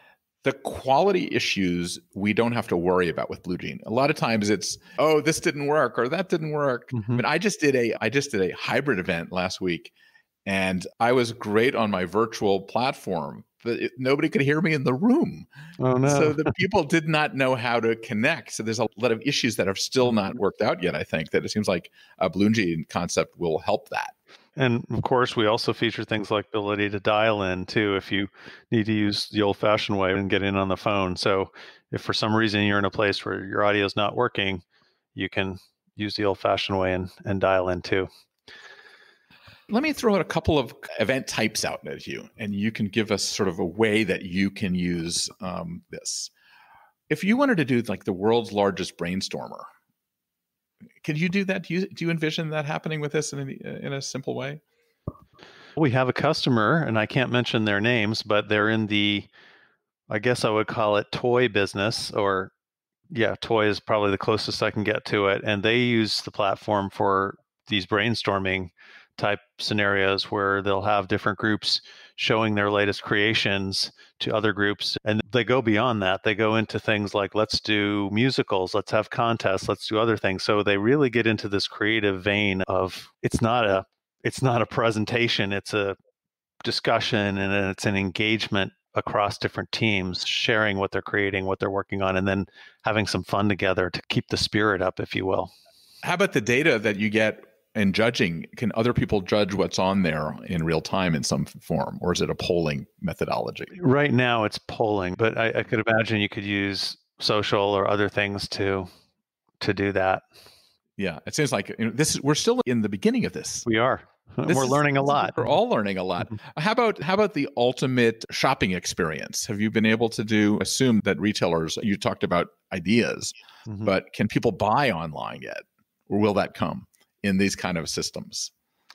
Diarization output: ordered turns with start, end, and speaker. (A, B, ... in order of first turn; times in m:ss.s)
0:00.4-0:09.9 A
0:06.9-0:07.2 B
0:10.5-0:15.5 A
0:15.8-0:16.6 B
0:16.0-0:24.1 A
0:24.6-0:34.6 B
0:35.2-0:38.1 B
0:39.7-0:46.3 A
0:47.1-0:49.7 A
0:51.0-0:54.6 A
0:55.8-0:59.3 B
1:00.1-1:02.5 B
1:03.1-1:26.0 B
1:26.6-1:35.5 B
1:36.0-1:43.7 A
1:43.7-1:48.9 B
1:49.6-1:50.2 B
1:51.0-1:53.7 A
1:53.7-1:55.4 B
1:54.5-2:08.5 A
2:03.7-2:03.9 B